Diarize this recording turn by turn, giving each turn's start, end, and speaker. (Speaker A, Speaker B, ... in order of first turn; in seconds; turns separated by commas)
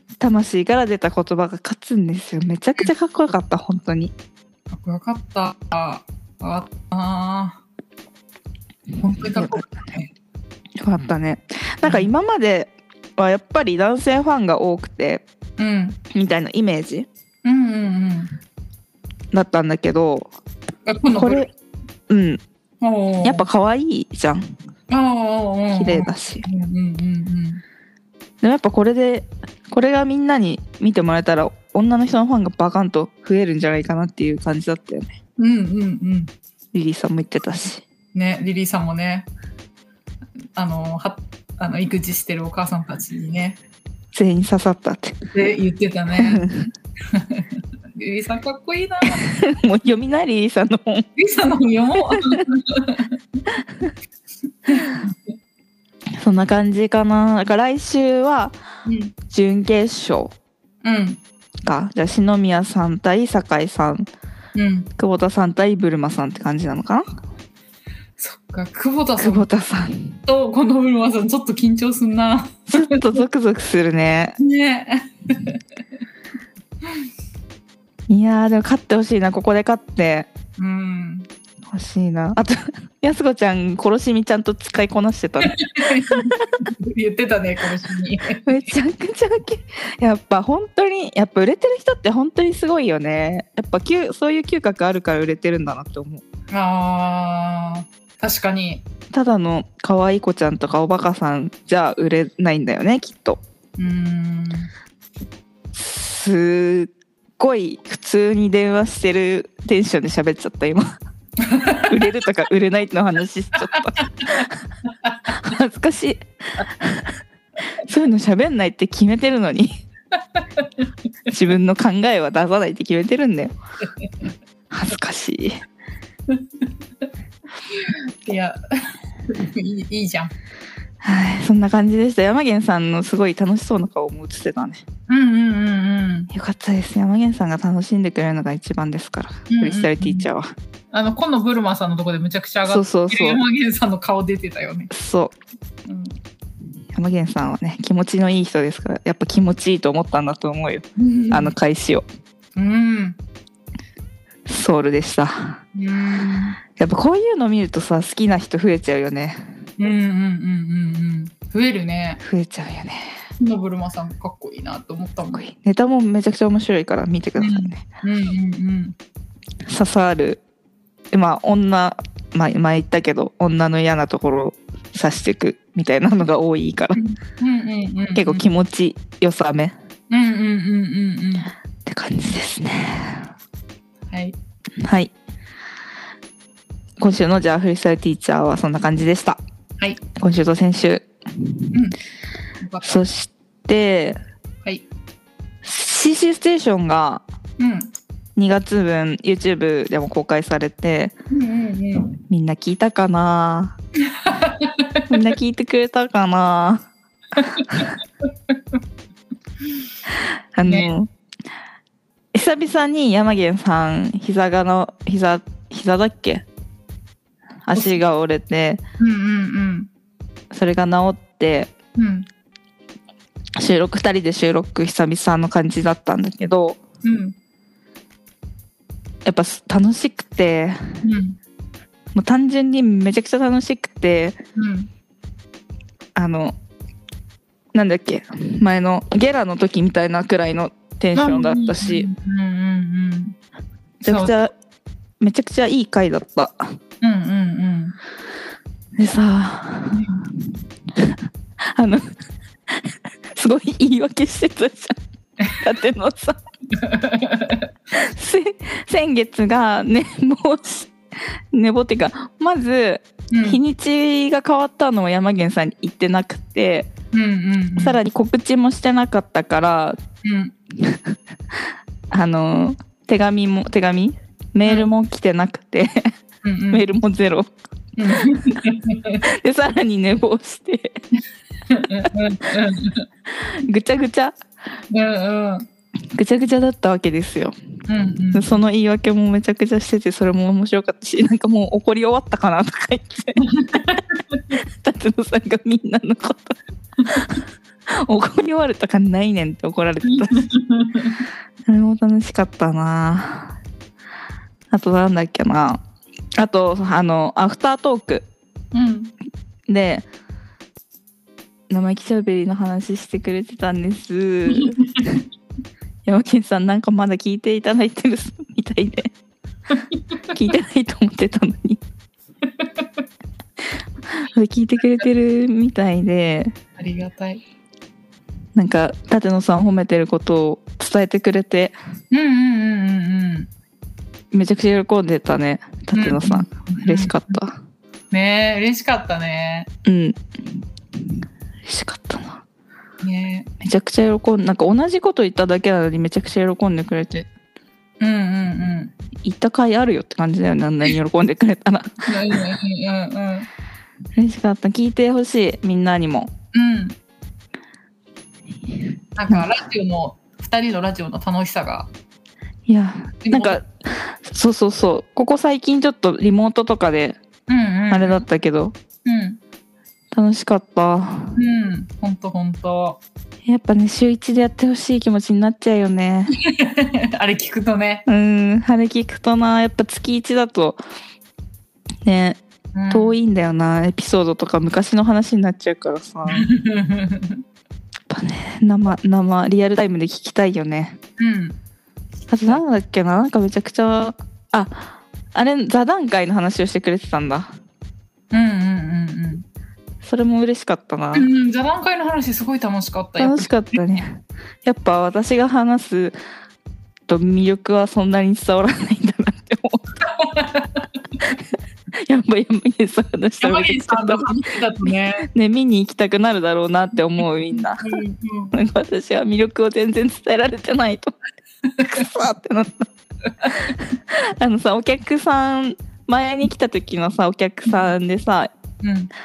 Speaker A: 0.2-4.1, Speaker B: 4.7-7.6, Speaker B: 9.0-10.1, Speaker A: 9.3-9.6, Speaker A: 10.8-15.2, Speaker B: 11.8-12.1, Speaker B: 15.6-16.0, Speaker A: 16.1-17.1, Speaker B: 17.4-18.4, Speaker A: 19.3-20.3, Speaker B: 20.9-21.4, Speaker A: 21.1-21.5, Speaker A: 22.1-22.4, Speaker B: 22.8-23.5, Speaker A: 23.2-24.5, Speaker B: 24.9-27.6, Speaker A: 25.7-26.5, Speaker A: 28.4-35.1, Speaker B: 35.4-36.3, Speaker A: 36.7-37.8, Speaker B: 38.1-39.3, Speaker B: 40.6-43.6, Speaker A: 44.1-45.2, Speaker B: 45.3-46.5, Speaker A: 46.2-46.7, Speaker B: 47.1-49.3, Speaker A: 49.2-51.1, Speaker B: 51.2-53.2, Speaker A: 52.1-52.4, Speaker B: 54.7-55.2, Speaker A: 56.2-58.6, Speaker B: 58.9-59.1, Speaker A: 59.3-60.3, Speaker B: 60.8-61.2, Speaker A: 61.6-64.1, Speaker B: 64.5-64.9, Speaker A: 65.0-67.0, Speaker B: 68.2-69.5, Speaker A: 69.2-70.2, Speaker B: 70.3-73.2, Speaker A: 72.7-74.4, Speaker B: 74.4-75.6, Speaker A: 78.1-80.3, Speaker B: 80.6-81.3, Speaker A: 81.7-86.3, Speaker B: 85.4-88.7, Speaker A: 88.5-96.2, Speaker B: 96.5-98.8, Speaker A: 99.1-103.4, Speaker B: 103.8-104.7, Speaker A: 105.7-110.9, Speaker B: 111.4-112.0, Speaker A: 111.9-114.6, Speaker B: 113.8-114.4, Speaker B: 115.0-115.3, Speaker A: 115.3-117.2, Speaker A: 117.8-119.7, Speaker B: 120.3-120.9, Speaker A: 121.3-123.5, Speaker A: 124.7-125.6, Speaker B: 127.7-130.3, Speaker A: 131.0-134.8, Speaker B: 135.1-136.3, Speaker A: 136.3-140.5, Speaker B: 139.5-140.3, Speaker B: 140.9-144.9, Speaker A: 142.7-143.4, Speaker A: 144.9-145.3, Speaker B: 145.9-146.2, Speaker A: 146.9-152.1, Speaker B: 151.0-151.5, Speaker B: 152.6-153.2, Speaker A: 154.5-155.6, Speaker B: 155.8-156.6, Speaker A: 156.8-159.5, Speaker B: 159.8-162.2, Speaker A: 162.2-163.1, Speaker B: 163.4-165.4, Speaker A: 165.3-167.8, Speaker B: 167.4-169.0, Speaker A: 169.7-170.4, Speaker A: 171.1-177.0, Speaker B: 176.9-178.5, Speaker A: 178.2-179.7, Speaker B: 180.1-181.5, Speaker A: 181.9-183.3, Speaker B: 184.1-184.4, Speaker A: 184.8-185.1, Speaker A: 187.0-189.4, Speaker A: 190.2-191.6, Speaker B: 191.7-192.0, Speaker B: 192.6-193.0, Speaker A: 192.8-194.2, Speaker A: 195.6-197.2, Speaker B: 197.6-197.9, Speaker A: 198.4-201.1, Speaker B: 201.3-202.2, Speaker A: 202.3-203.8, Speaker B: 204.1-205.1, Speaker A: 205.1-206.9, Speaker B: 207.4-207.9, Speaker A: 210.5-211.1, Speaker B: 210.7-210.9, Speaker A: 212.3-216.4, Speaker A: 217.7-218.8, Speaker B: 217.8-218.0, Speaker B: 219.0-219.9, Speaker A: 220.5-221.7, Speaker B: 222.0-222.3, Speaker A: 223.6-226.8, Speaker B: 227.0-227.3, Speaker A: 229.2-231.0, Speaker B: 231.0-231.4, Speaker A: 232.1-234.4, Speaker B: 234.6-234.9, Speaker A: 236.2-236.6, Speaker A: 237.7-242.1, Speaker B: 241.2-243.4, Speaker A: 244.0-244.5, Speaker B: 244.0-244.4, Speaker A: 245.2-246.7, Speaker B: 247.0-248.0, Speaker A: 249.0-250.0, Speaker B: 249.9-250.3, Speaker A: 250.9-252.1, Speaker A: 252.7-255.0, Speaker A: 255.5-256.4, Speaker B: 256.7-257.7, Speaker A: 257.9-266.9, Speaker B: 263.3-263.6, Speaker B: 267.1-268.0, Speaker A: 267.8-270.0, Speaker B: 270.2-270.5, Speaker A: 270.8-271.1, Speaker A: 272.1-276.1, Speaker B: 276.4-276.9, Speaker A: 276.7-277.5, Speaker B: 278.0-279.2, Speaker A: 279.3-281.0, Speaker B: 281.7-283.1, Speaker A: 283.3-284.4, Speaker B: 284.9-285.7, Speaker A: 286.1-287.6, Speaker B: 287.9-288.6, Speaker A: 288.3-294.0, Speaker B: 293.4-294.6, Speaker A: 294.6-300.5, Speaker B: 300.1-301.2, Speaker A: 301.7-303.5, Speaker A: 304.7-305.8, Speaker A: 306.4-308.3, Speaker B: 308.7-309.1, Speaker A: 309.7-310.1, Speaker A: 311.7-315.2, Speaker B: 314.5-315.1, Speaker A: 316.1-319.1, Speaker B: 319.7-320.0, Speaker A: 320.3-321.8, Speaker B: 322.4-322.9, Speaker A: 324.1-326.5, Speaker B: 326.8-327.4, Speaker A: 328.6-331.7, Speaker B: 332.1-333.5, Speaker A: 334.3-337.6, Speaker B: 335.9-337.4, Speaker B: 338.1-339.7, Speaker A: 339.9-340.6, Speaker A: 341.6-342.4, Speaker B: 343.0-343.5, Speaker A: 343.6-347.3, Speaker B: 348.0-348.9, Speaker A: 349.2-352.4, Speaker B: 352.1-353.5, Speaker A: 354.1-356.3, Speaker B: 356.5-357.0, Speaker B: 359.2-361.9, Speaker A: 362.7-367.2, Speaker B: 363.2-363.6, Speaker B: 367.5-368.2, Speaker A: 367.9-368.8, Speaker B: 369.1-369.4, Speaker A: 370.1-371.4, Speaker B: 371.4-373.0, Speaker A: 373.4-376.4, Speaker B: 376.4-378.1, Speaker A: 378.1-380.8, Speaker A: 382.1-386.5, Speaker B: 382.8-383.2, Speaker B: 386.3-387.4, Speaker A: 388.1-391.0, Speaker B: 391.2-391.6, Speaker A: 392.3-397.5, Speaker B: 398.3-399.4, Speaker A: 400.0-401.3, Speaker B: 401.1-403.6, Speaker A: 403.2-406.2, Speaker A: 407.1-409.8, Speaker B: 410.1-411.3, Speaker A: 412.0-414.4, Speaker B: 413.4-415.3, Speaker A: 415.2-418.0, Speaker B: 417.8-418.6, Speaker A: 418.5-421.1, Speaker B: 421.7-422.1, Speaker A: 421.8-422.9, Speaker B: 423.4-423.7, Speaker A: 423.5-428.5, Speaker B: 427.7-427.9, Speaker B: 428.8-429.1